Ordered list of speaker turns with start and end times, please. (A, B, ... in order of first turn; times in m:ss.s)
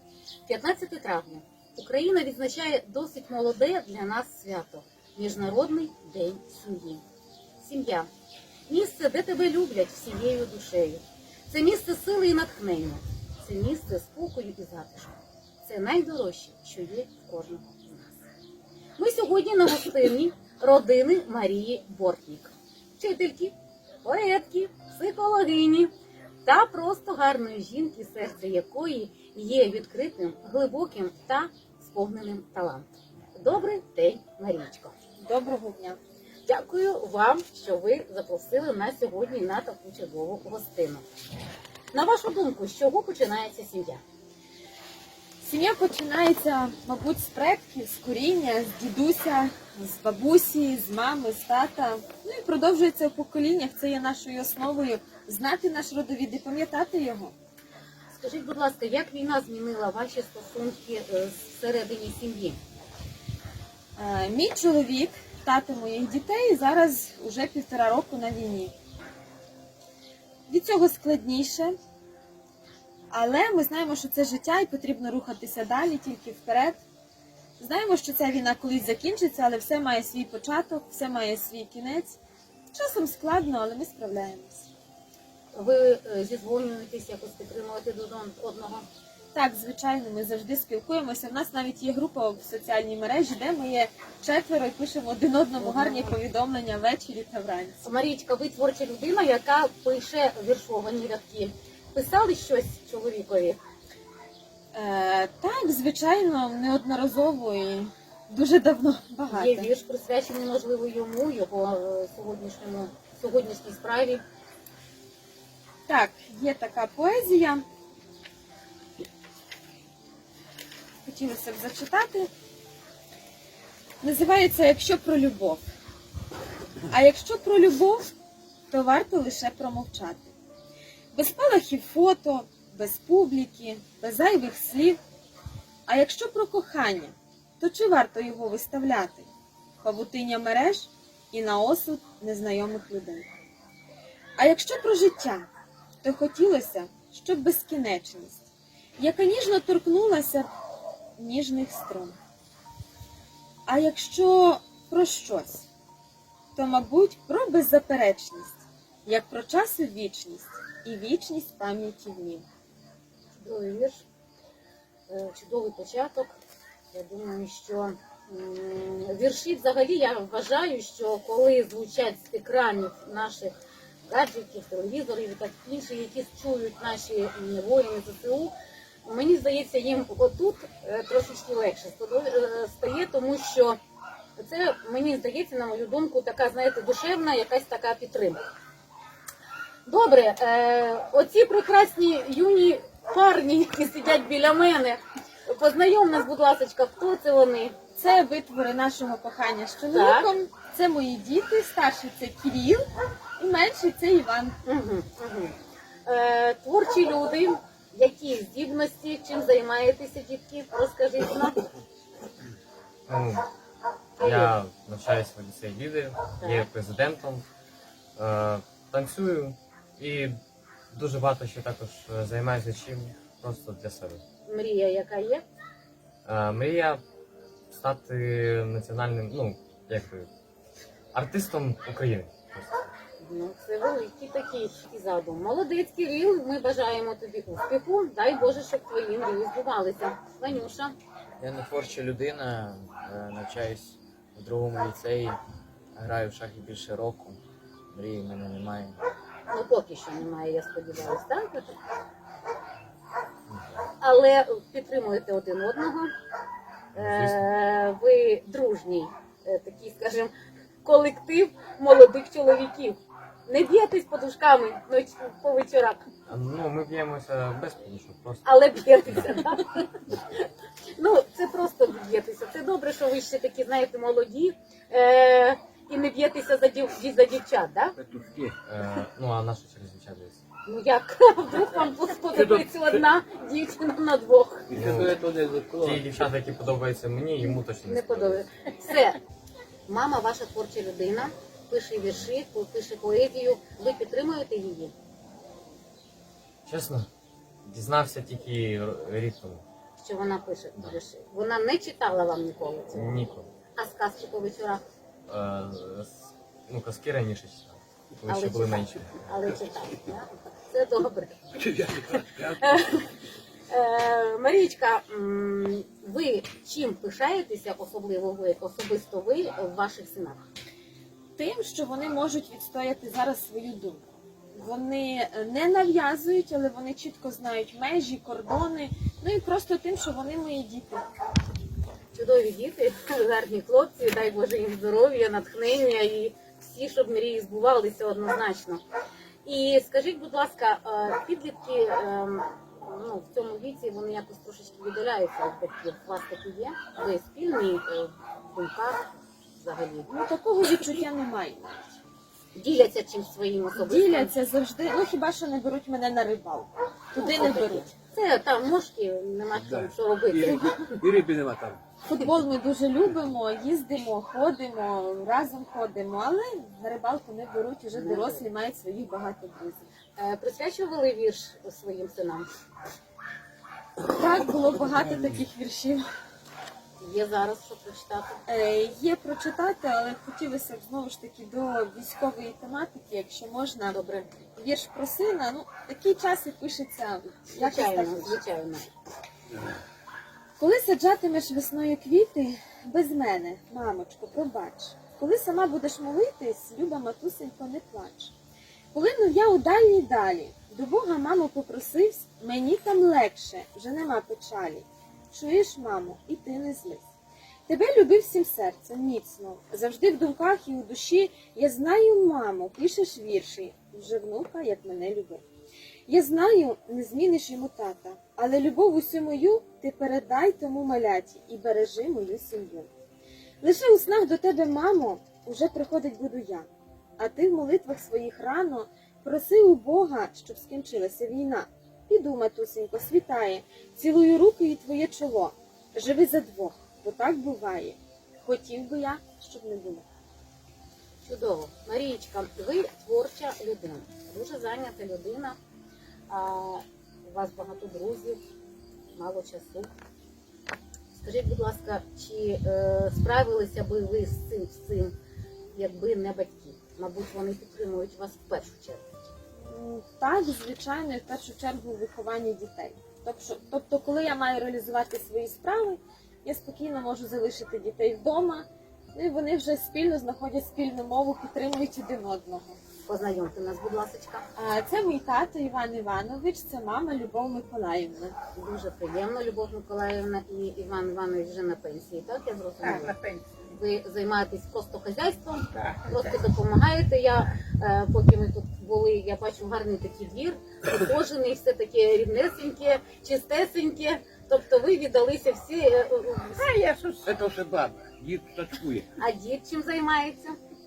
0:00.4-0:07.0 A
0:07.6-0:08.1 A
0:08.7-0:18.2 A
0:19.0-0:25.9 A
0:26.4-0:34.9 A
0:35.2-0:36.0 B
0:36.4-0:41.0 A
0:41.9-0:44.0 A
0:45.4-0:57.3 B
0:58.1-1:02.6 A
1:04.0-1:08.7 B
1:10.5-1:11.8 B
1:13.1-1:16.8 B
1:17.6-1:22.2 B
1:22.7-1:24.7 B
1:25.5-1:28.8 A
1:29.3-1:37.8 B
1:35.6-1:36.2 A
1:37.8-1:43.6 A
1:44.7-1:49.7 B
1:49.3-1:54.2 A
1:55.9-1:57.6 B
2:01.0-2:02.3 B
2:04.0-2:05.6 B
2:06.9-2:08.1 B
2:08.7-2:10.3 B
2:11.1-2:15.0 B
2:15.9-2:23.3 B
2:24.4-2:25.5 B
2:26.0-2:28.4 B
2:29.0-2:30.5 B
2:31.2-2:32.2 B
2:33.7-2:35.7 B
2:36.6-2:42.4 B
2:43.3-2:44.0 A
2:45.1-2:46.3 A
2:46.9-2:58.5 A
2:59.0-3:03.8 A
3:04.4-3:08.4 A
3:09.8-3:17.7 A
3:18.0-3:24.6 B
3:19.9-3:20.3 A
3:24.6-3:31.6 A
3:33.1-3:33.4 C
3:34.2-3:34.5 A
3:34.2-3:37.4 C
3:36.4-3:36.7 A
3:38.2-3:40.4 C
3:40.9-3:44.2 C
3:44.5-3:45.4 A
3:46.2-3:47.0 C
3:47.7-3:50.3 C
3:51.1-3:52.9 C
3:53.2-4:00.9 A
4:01.4-4:05.4 D
4:05.9-4:07.4 D
4:07.9-4:09.0 D
4:09.5-4:11.7 A
4:14.0-4:16.1 A
4:16.9-4:17.4 C
4:16.9-4:20.3 A
4:20.8-4:26.0 A
4:26.3-4:28.5 C
4:28.4-4:30.4 A
4:31.0-4:37.9 A
4:38.0-4:38.6 E
4:38.6-4:40.4 C
4:40.6-4:44.7 A
4:42.3-4:42.9 E
4:44.7-4:46.0 E
4:44.7-4:45.2 C
4:45.8-4:48.4 C
4:47.8-4:49.2 A
4:49.9-4:54.9 A
4:56.6-4:57.1 C
4:57.6-4:59.6 C
5:00.0-5:04.8 A
5:02.9-5:03.5 C
5:05.3-5:09.3 C
5:08.3-5:11.4 A
5:11.6-5:12.8 E
5:12.6-5:13.0 A
5:13.7-5:20.4 A
5:21.4-5:31.0 B
5:32.1-5:38.8 A
5:39.4-5:49.0 A
5:49.6-5:50.1 A
5:50.1-5:51.9 B
5:52.5-5:54.3 A
5:53.7-5:57.9 B
5:57.2-6:01.0 A
5:59.5-6:01.8 E
6:02.0-6:09.9 B
6:07.9-6:08.4 A
6:10.2-6:12.5 A
6:14.1-6:16.0 B
6:17.0-6:18.4 A
6:18.5-6:24.0 B
6:23.9-6:24.3 A
6:24.6-6:28.4 B
6:27.5-6:28.9 A
6:30.6-6:38.3 B
6:38.9-6:47.1 B
6:47.7-6:55.4 B
6:56.1-7:02.9 B
7:03.6-7:06.7 B
7:07.2-7:20.0 B
7:21.2-7:25.6 A
7:26.3-7:28.4 A
7:29.1-7:29.9 A
7:31.1-7:35.1 A
7:35.7-7:39.0 A
7:39.6-7:52.8 B
7:53.0-7:54.4 A
7:54.6-7:58.4 B
7:58.5-8:03.1 A
8:02.8-8:03.6 F
8:03.6-8:16.7 A
8:05.7-8:06.3 F
8:16.6-8:17.3 F
8:17.2-8:19.0 E
8:19.2-8:20.6 A